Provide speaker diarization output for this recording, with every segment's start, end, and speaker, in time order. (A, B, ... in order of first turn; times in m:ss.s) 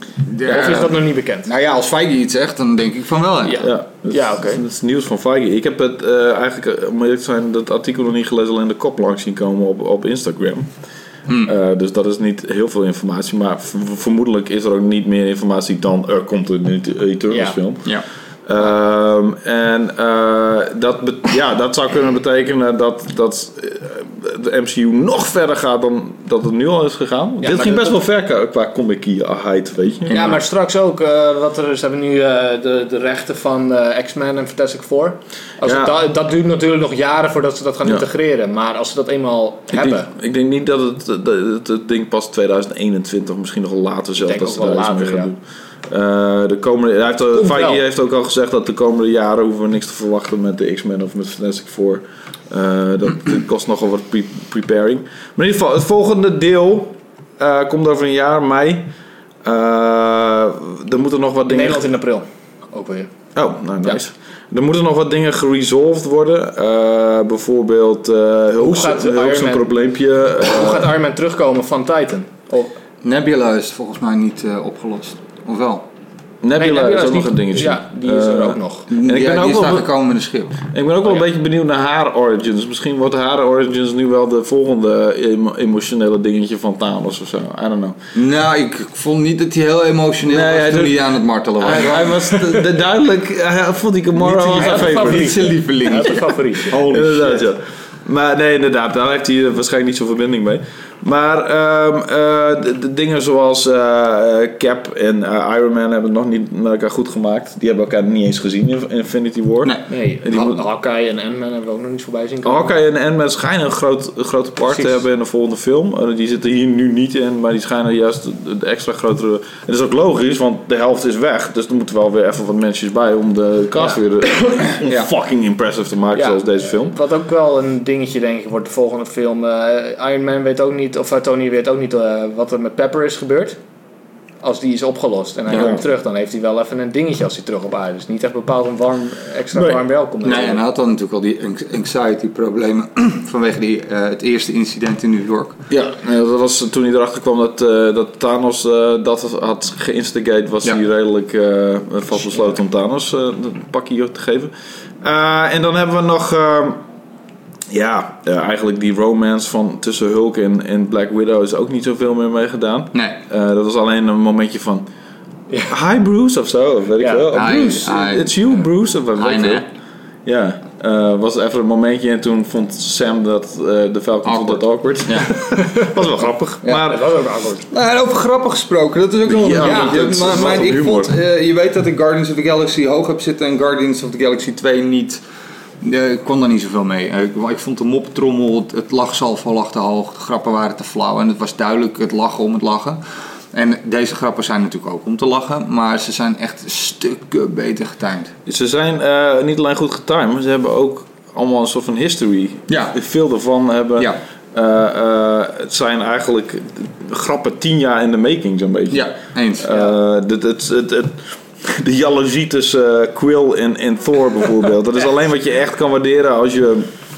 0:00.2-0:03.6 A
0:00.4-0:01.5 B
0:03.4-0:04.6 B
0:03.6-0:10.7 C
0:11.4-0:17.9 C
0:17.3-0:17.6 B
0:18.4-0:30.3 C
0:27.4-0:27.9 B
0:30.1-0:30.4 A
0:30.1-0:40.1 B
0:35.6-0:35.9 C
0:39.7-0:45.4 C
0:44.2-0:45.3 B
0:45.9-0:58.9 C
0:47.3-0:47.8 B
0:59.4-1:01.8 C
1:01.5-1:03.1 B
1:03.4-1:10.9 C
1:08.6-1:09.7 B
1:10.4-1:12.7 B
1:13.0-1:15.8 A
1:16.4-1:19.9 C
1:16.6-1:18.9 B
1:18.9-1:20.6 A
1:20.7-1:28.0 C
1:28.1-1:32.4 A
1:30.3-1:35.5 C
1:34.2-1:37.5 A
1:34.5-1:36.8 B
1:36.7-1:50.6 C
1:49.9-1:52.7 B
1:52.4-2:07.0 C
2:06.1-2:13.6 B
2:14.4-2:20.6 B
2:15.5-2:15.7 A
2:15.5-2:15.8 C
2:19.5-2:19.8 C
2:20.2-2:25.6 A
2:25.7-2:36.8 C
2:37.7-2:44.9 C
2:42.9-2:43.2 A
2:45.7-2:49.6 C
2:47.0-2:47.2 B
2:47.3-2:48.5 A
2:49.2-2:49.6 A
2:50.2-2:57.1 C
2:54.2-2:55.3 A
2:55.6-2:55.9 B
2:56.7-2:57.7 B
2:57.7-3:05.2 A
2:59.3-3:01.1 C
3:05.8-3:13.0 A
3:13.5-3:18.3 A
3:18.4-3:36.9 C
3:22.7-3:23.0 A
3:28.9-3:29.8 A